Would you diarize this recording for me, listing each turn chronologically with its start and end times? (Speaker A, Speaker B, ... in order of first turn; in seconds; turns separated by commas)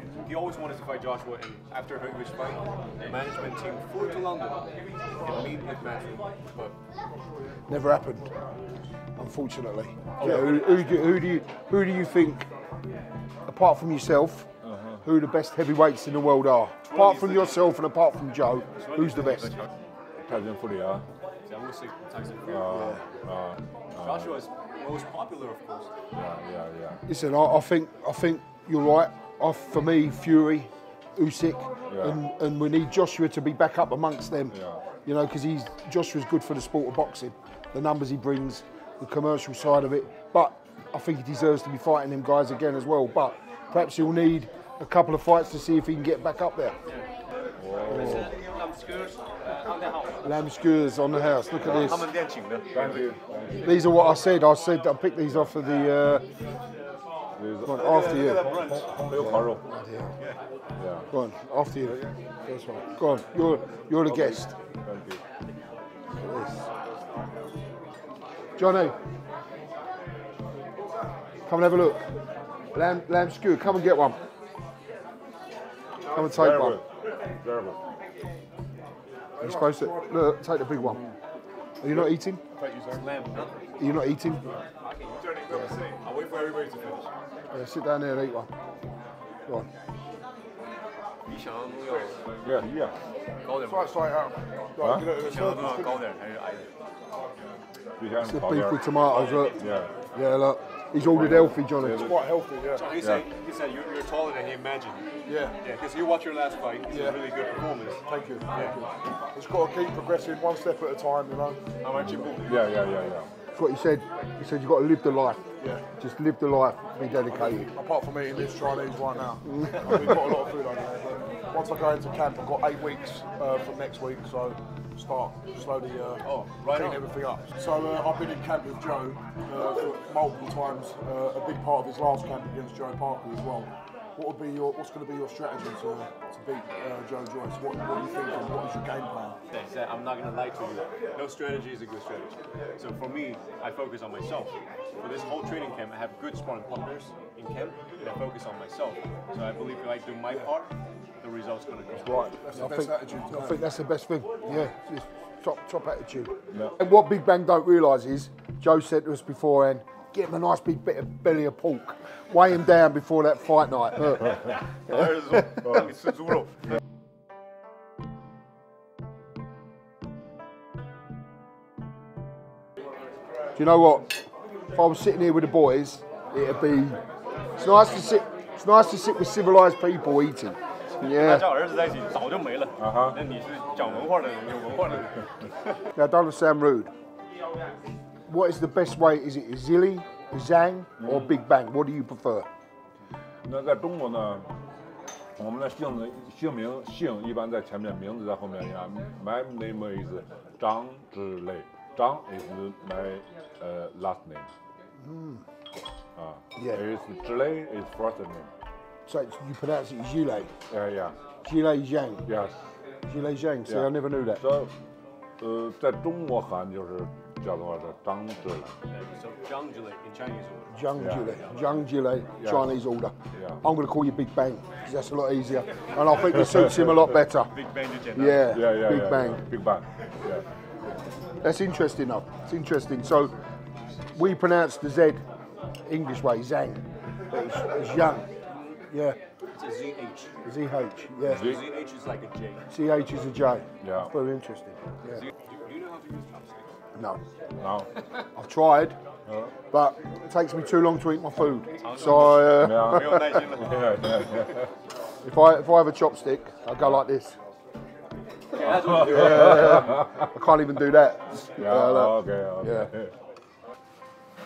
Speaker A: 0.2-4.7, Speaker A: 5.2-6.8, Speaker B: 7.7-8.3, Speaker B: 9.2-12.5, Speaker A: 10.2-10.8, Speaker B: 13.5-14.5, Speaker C: 14.7-15.0, Speaker B: 15.0-19.6, Speaker A: 16.8-17.7, Speaker A: 18.8-19.7, Speaker C: 20.2-21.1, Speaker A: 21.5-22.7, Speaker C: 22.6-24.3, Speaker B: 22.7-23.0, Speaker A: 23.9-25.9, Speaker C: 26.1-27.0, Speaker B: 27.1-46.8, Speaker C: 31.9-32.2, Speaker C: 34.5-34.8, Speaker C: 47.6-48.3, Speaker A: 47.9-50.2, Speaker B: 47.9-48.3, Speaker B: 50.2-52.1, Speaker A: 51.6-53.1, Speaker C: 52.7-54.0, Speaker B: 53.6-56.2, Speaker C: 57.4-59.6, Speaker B: 57.6-58.5, Speaker A: 57.7-58.9, Speaker B: 59.1-60.1, Speaker C: 60.8-61.1, Speaker B: 61.1-64.5, Speaker C: 61.8-62.1, Speaker C: 64.0-65.2, Speaker B: 66.2-66.7, Speaker B: 68.6-69.0, Speaker B: 71.5-72.1, Speaker B: 72.7-74.2, Speaker B: 76.1-76.8, Speaker C: 76.2-77.8, Speaker D: 79.4-80.2, Speaker B: 79.4-81.0, Speaker B: 81.8-82.4, Speaker D: 81.8-83.0, Speaker A: 82.9-83.5, Speaker B: 83.8-84.5, Speaker A: 84.8-87.1, Speaker B: 87.5-88.5, Speaker A: 91.3-92.4, Speaker C: 92.5-93.0, Speaker A: 93.5-94.0, Speaker D: 93.6-96.0, Speaker A: 95.1-96.7, Speaker C: 98.0-99.9, Speaker B: 98.2-99.6, Speaker A: 99.1-99.8, Speaker B: 100.1-102.1, Speaker C: 101.0-102.2, Speaker D: 101.3-103.0, Speaker A: 102.7-105.1, Speaker D: 105.3-105.6, Speaker A: 105.6-108.8, Speaker D: 106.9-107.3, Speaker D: 108.1-111.6, Speaker A: 111.8-112.7, Speaker C: 112.2-113.3, Speaker B: 113.5-115.4, Speaker B: 116.0-117.7, Speaker D: 117.3-139.4, Speaker B: 119.5-120.1, Speaker A: 126.2-127.0, Speaker A: 139.5-150.7, Speaker A: 151.2-152.4, Speaker B: 152.1-164.5, Speaker D: 152.3-153.7, Speaker A: 164.4-166.8, Speaker B: 173.5-177.0, Speaker B: 177.6-181.6, Speaker A: 181.0-185.9, Speaker B: 185.9-186.9, Speaker B: 188.3-192.5, Speaker C: 193.4-194.5, Speaker C: 195.4-204.5, Speaker B: 205.0-205.4, Speaker C: 206.2-208.5, Speaker B: 206.6-206.8, Speaker B: 209.1-210.5, Speaker C: 210.7-211.2, Speaker B: 211.4-212.3, Speaker C: 212.3-212.6, Speaker B: 213.1-214.4, Speaker C: 213.7-214.7, Speaker C: 215.4-218.7, Speaker A: 218.9-221.5, Speaker B: 220.7-227.5, Speaker C: 221.0-221.3, Speaker C: 222.4-222.7, Speaker A: 227.5-228.6, Speaker B: 228.1-229.4, Speaker C: 228.5-230.4, Speaker B: 231.4-233.3, Speaker B: 234.1-235.2, Speaker B: 235.8-238.3, Speaker A: 238.5-238.8, Speaker B: 238.9-239.2, Speaker A: 239.5-240.3, Speaker B: 240.4-241.6, Speaker A: 241.3-242.7, Speaker B: 242.7-245.2, Speaker C: 243.8-244.1, Speaker A: 245.2-246.7, Speaker B: 246.9-247.2, Speaker C: 247.6-247.9, Speaker B: 248.3-249.0, Speaker B: 249.7-253.4, Speaker A: 251.8-254.4, Speaker C: 252.5-254.7, Speaker B: 255.2-257.4, Speaker A: 258.5-260.0, Speaker B: 258.7-262.9, Speaker C: 261.6-263.1